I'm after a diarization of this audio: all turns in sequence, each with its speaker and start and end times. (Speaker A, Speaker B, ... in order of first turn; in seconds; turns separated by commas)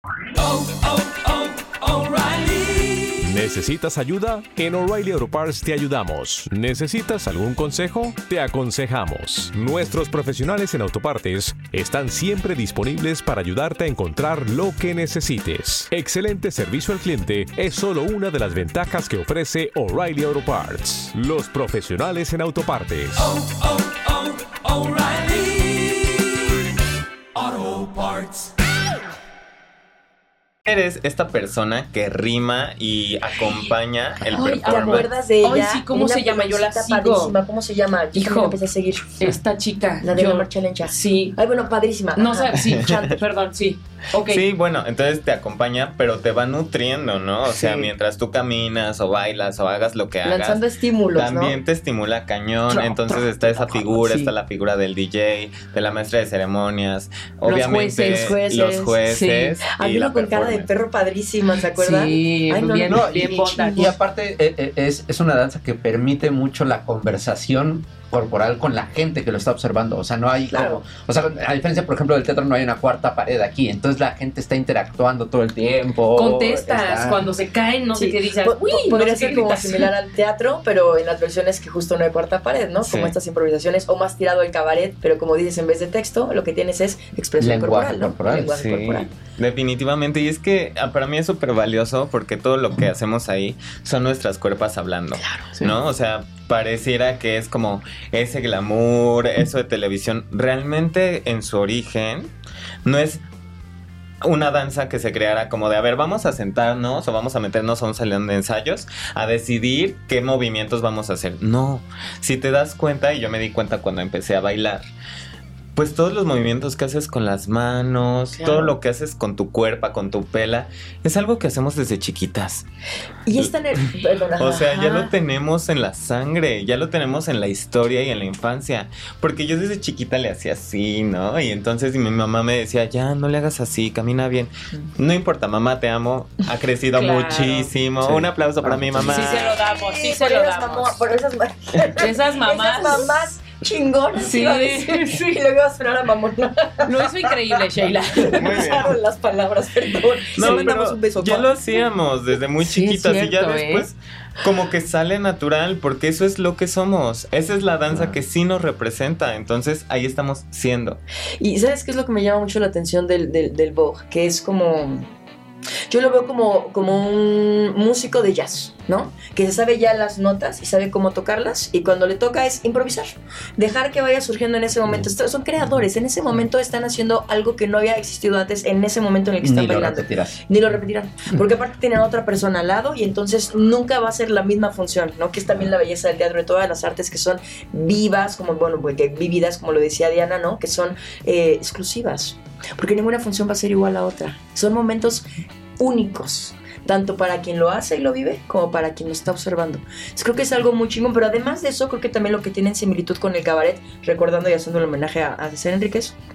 Speaker A: 0.4-23.6, Speaker A: 27.4-28.0, Speaker B: 30.6-35.1, Speaker C: 34.3-37.4, Speaker D: 34.6-39.4, Speaker C: 38.1-38.6, Speaker C: 39.2-41.4, Speaker D: 40.0-43.2, Speaker C: 42.1-44.5, Speaker B: 42.6-42.9, Speaker B: 44.2-50.6, Speaker C: 47.5-47.9, Speaker D: 50.2-51.6, Speaker B: 51.1-60.7, Speaker C: 52.7-54.3, Speaker C: 57.4-58.4, Speaker D: 58.1-59.0, Speaker C: 59.0-59.6, Speaker D: 59.7-63.8, Speaker C: 61.7-63.9, Speaker E: 62.9-77.3, Speaker D: 70.5-70.8, Speaker C: 76.1-79.9, Speaker D: 77.9-89.1, Speaker B: 82.8-83.1, Speaker E: 87.4-88.6, Speaker B: 88.4-102.3, Speaker B: 102.8-103.2, Speaker B: 104.2-114.8, Speaker B: 115.8-122.7, Speaker D: 118.4-118.8, Speaker D: 123.3-125.1, Speaker B: 124.4-139.6, Speaker C: 136.9-137.7, Speaker E: 138.0-139.3, Speaker C: 139.1-141.0, Speaker D: 139.6-147.6, Speaker C: 142.0-143.3, Speaker C: 144.2-145.1, Speaker C: 146.8-148.8, Speaker D: 148.2-151.5, Speaker B: 148.3-148.9, Speaker B: 150.3-161.0, Speaker C: 152.6-153.9, Speaker E: 157.9-158.2, Speaker D: 161.4-165.1, Speaker D: 165.9-195.2, Speaker E: 179.4-180.4, Speaker D: 195.8-206.1